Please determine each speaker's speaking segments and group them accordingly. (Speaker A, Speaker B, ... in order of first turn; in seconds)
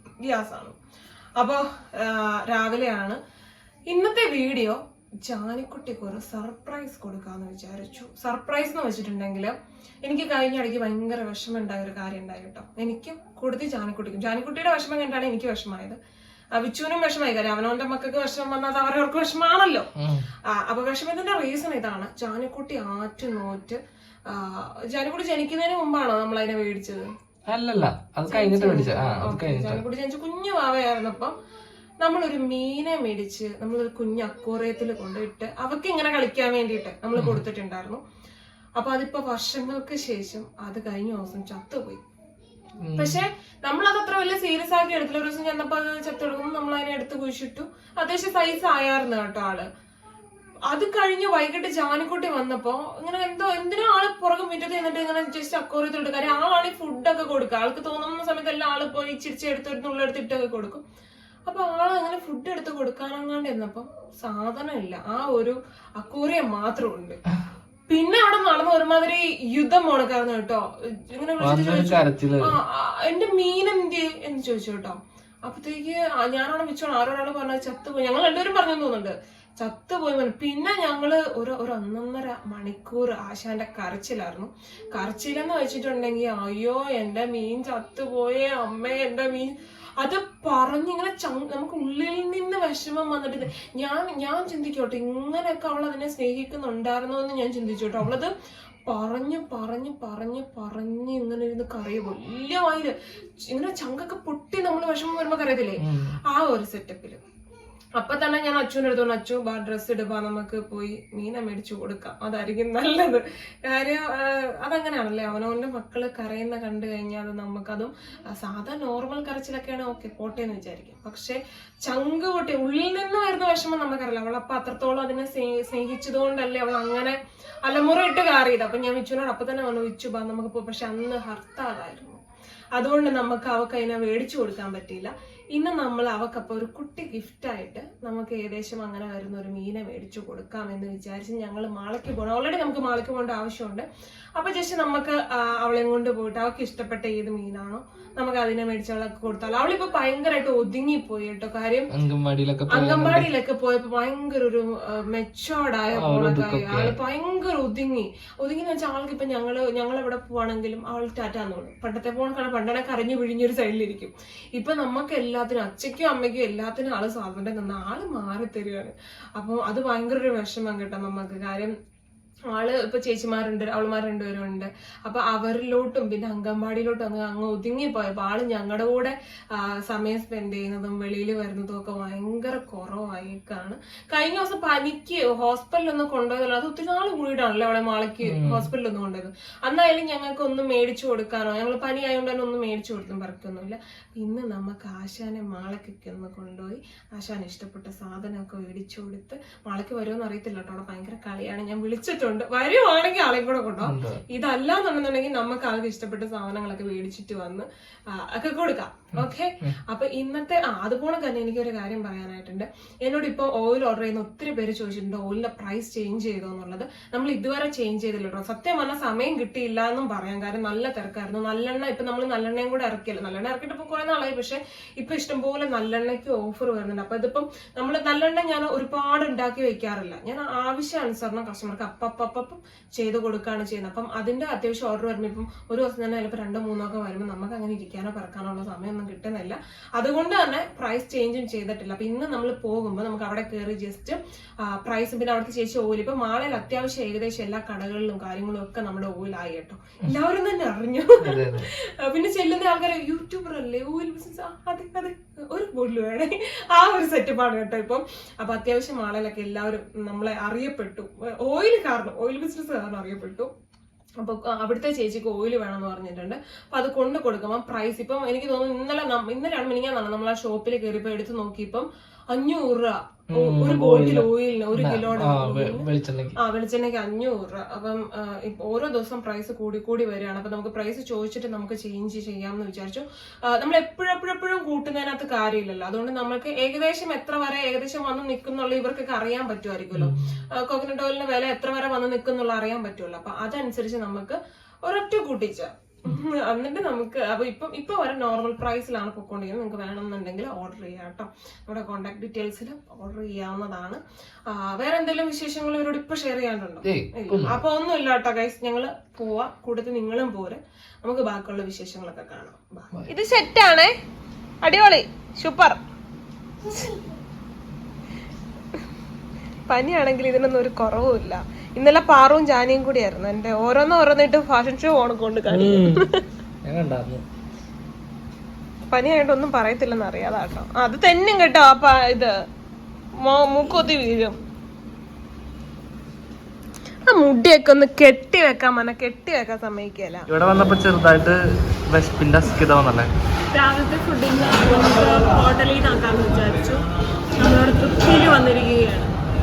Speaker A: 0.2-0.8, 1.4-3.2, 3.9-16.0, 16.6-19.9, 20.5-27.1, 28.3-31.3, 32.0-38.0, 38.8-42.0, 43.0-49.7, 50.7-60.8, 61.5-67.2, 67.9-98.3, 98.9-102.9, 103.5-107.2, 108.0-132.2, 132.8-151.9, 152.7-171.7, 172.5-263.5, 264.2-275.8, 276.4-313.9, 314.6-315.8, 319.7-326.2, 328.9-332.3, 333.2-334.4, 337.1-340.3, 343.5-346.8, 347.4-349.1
Speaker B: 20.0-20.3, 27.5-29.8, 37.1-37.4, 42.8-43.2, 71.4-72.6, 105.8-106.2, 151.9-153.3, 156.0-157.0, 188.2-188.7, 203.8-204.2, 209.2-209.8, 251.2-251.7, 273.3-276.4, 289.9-290.4, 306.9-307.6, 325.5-326.1, 326.6-327.2, 340.3-343.1